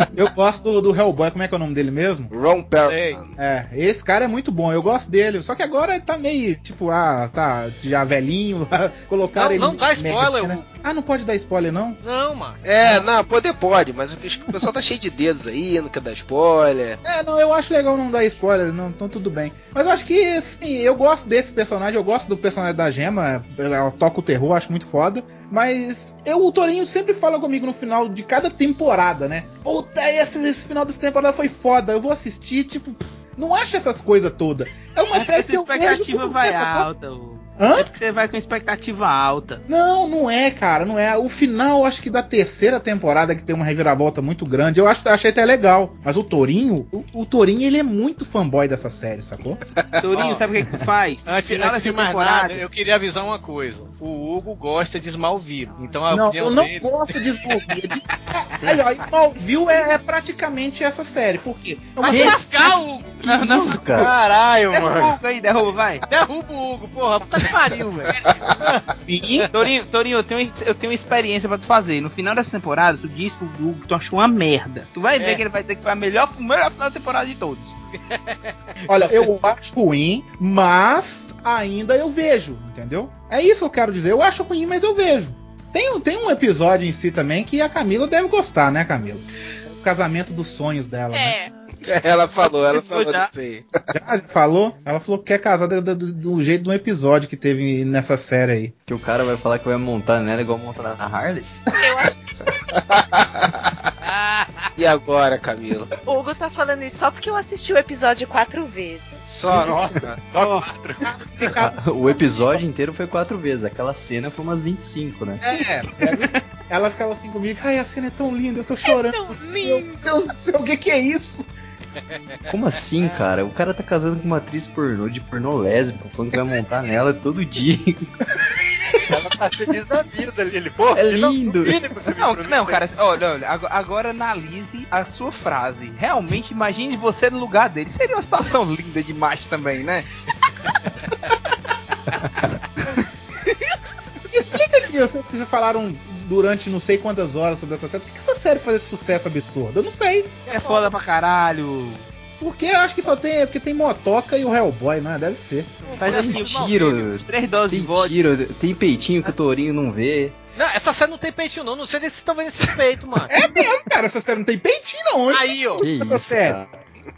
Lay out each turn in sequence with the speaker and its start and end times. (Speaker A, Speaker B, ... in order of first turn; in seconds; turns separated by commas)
Speaker A: 0.2-2.3, Speaker B: 2.3-3.3, Speaker C: 2.9-3.2, Speaker A: 3.4-12.0, Speaker C: 9.3-10.7, Speaker C: 12.0-12.6, Speaker B: 12.6-17.0, Speaker A: 17.0-36.9, Speaker D: 35.1-39.6, Speaker A: 37.6-37.9, Speaker A: 39.7-49.6, Speaker D: 50.0-52.6, Speaker C: 50.1-50.4, Speaker C: 51.3-57.6, Speaker A: 56.1-62.8, Speaker C: 62.0-63.1, Speaker E: 62.1-62.4, Speaker D: 63.2-64.1, Speaker E: 63.2-64.1, Speaker F: 64.0-65.2, Speaker D: 64.7-66.0, Speaker C: 66.1-68.8, Speaker A: 69.1-69.5, Speaker D: 69.5-77.8, Speaker C: 75.2-75.4, Speaker C: 78.1-78.4, Speaker A: 78.9-89.2, Speaker A: 89.8-91.4, Speaker G: 91.1-91.5, Speaker B: 91.8-93.7, Speaker D: 92.7-93.3, Speaker A: 93.9-98.7, Speaker E: 98.9-101.6, Speaker G: 101.7-102.3, Speaker B: 102.8-103.8, Speaker C: 104.0-104.7, Speaker B: 104.8-105.9, Speaker G: 106.0-109.2, Speaker B: 109.2-110.2, Speaker F: 109.6-111.5, Speaker A: 110.4-112.6, Speaker E: 111.5-115.4, Speaker A: 115.4-121.5, Speaker D: 116.1-116.4, Speaker G: 118.9-120.0, Speaker E: 122.5-128.1, Speaker F: 129.1-133.1, Speaker E: 130.9-131.8, Speaker D: 132.2-140.1, Speaker A: 144.3-150.4, Speaker C: 150.5-150.9, Speaker D: 150.5-152.1, Speaker A: 152.4-155.9, Speaker C: 155.8-157.1, Speaker E: 156.0-160.4, Speaker D: 157.3-158.2, Speaker C: 160.6-163.3, Speaker A: 163.3-166.6, Speaker C: 165.3-165.8, Speaker E: 165.8-166.8